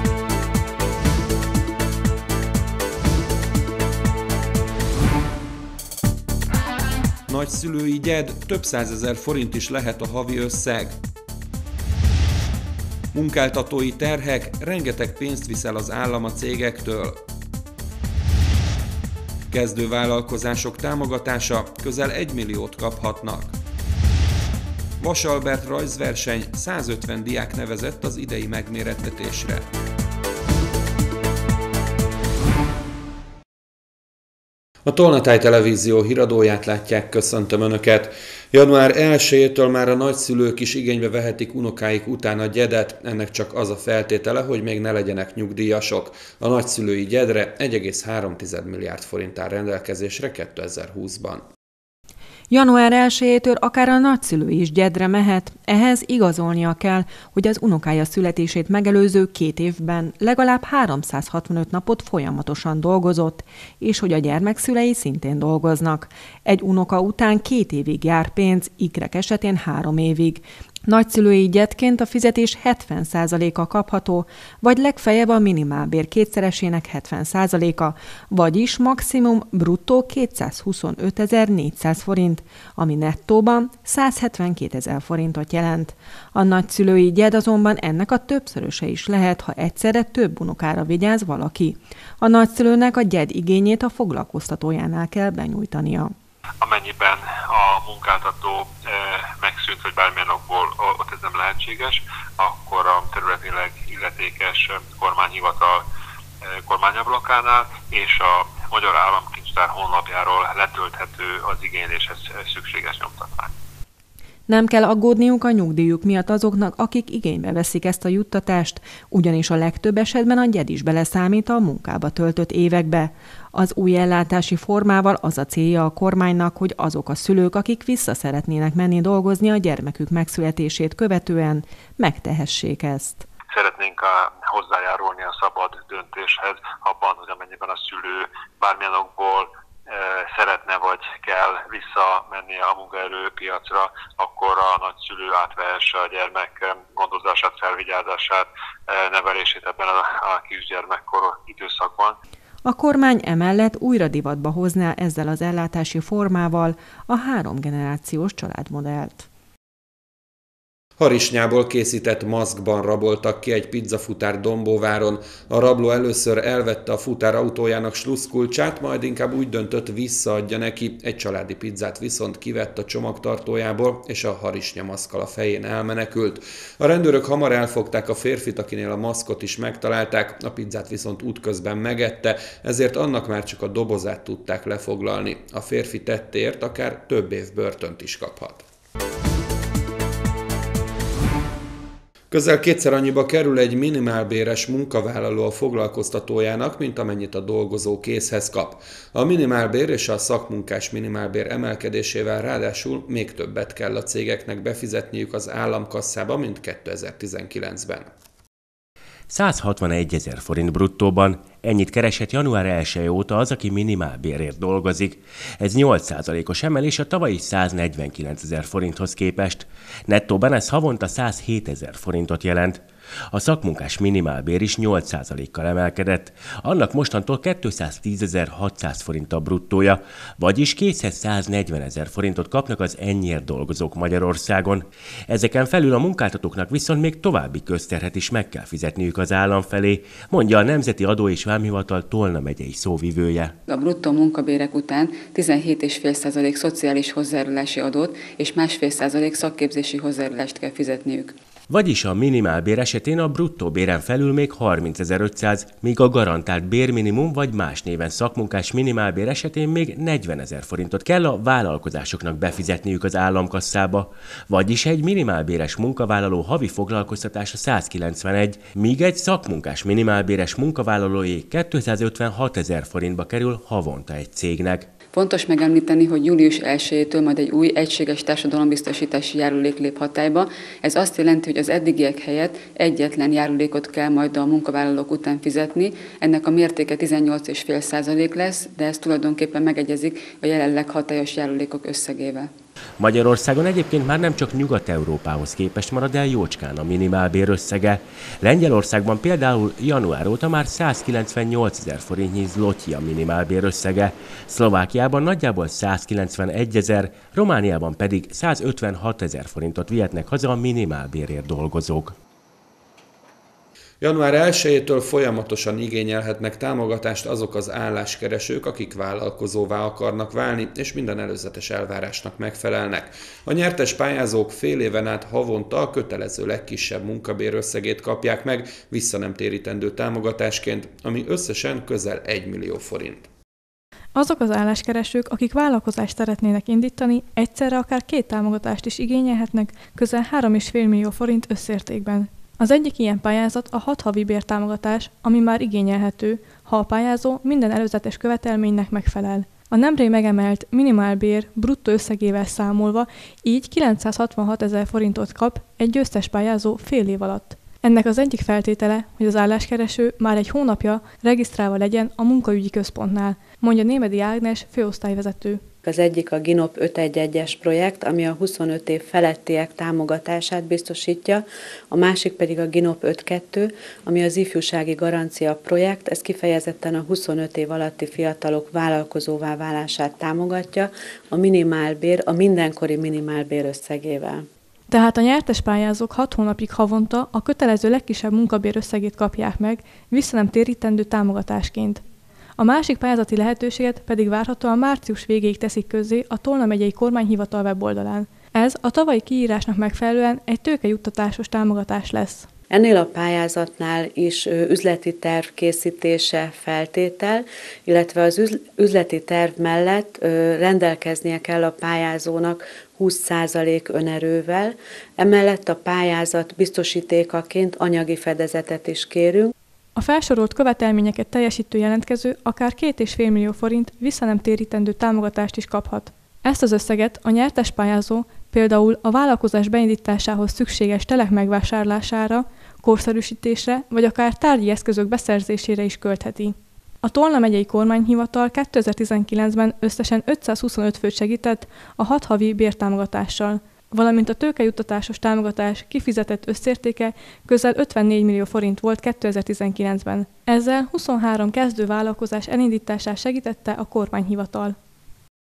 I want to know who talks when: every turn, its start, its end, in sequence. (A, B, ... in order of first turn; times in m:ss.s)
0:07.3-0:11.0 A
0:13.1-0:17.2 A
0:19.5-0:23.5 A
0:25.0-0:29.6 A
0:34.8-0:51.4 A
0:52.5-1:36.2 B
1:36.6-1:45.8 C
1:46.5-1:53.5 C
1:54.5-2:13.2 B
2:13.5-2:32.2 C
2:32.6-2:39.3 B
2:41.0-3:08.6 A
3:12.3-3:28.1 A
3:29.3-4:03.5 D
4:03.7-4:11.3 E
4:11.7-4:34.9 D
4:35.1-4:52.5 E
4:53.0-5:12.1 D
5:14.0-5:33.2 A
5:34.1-6:05.6 F
6:05.8-6:24.4 G
6:24.9-6:32.0 F
6:32.6-6:42.5 F
6:42.7-6:59.5 G
7:00.0-7:34.7 F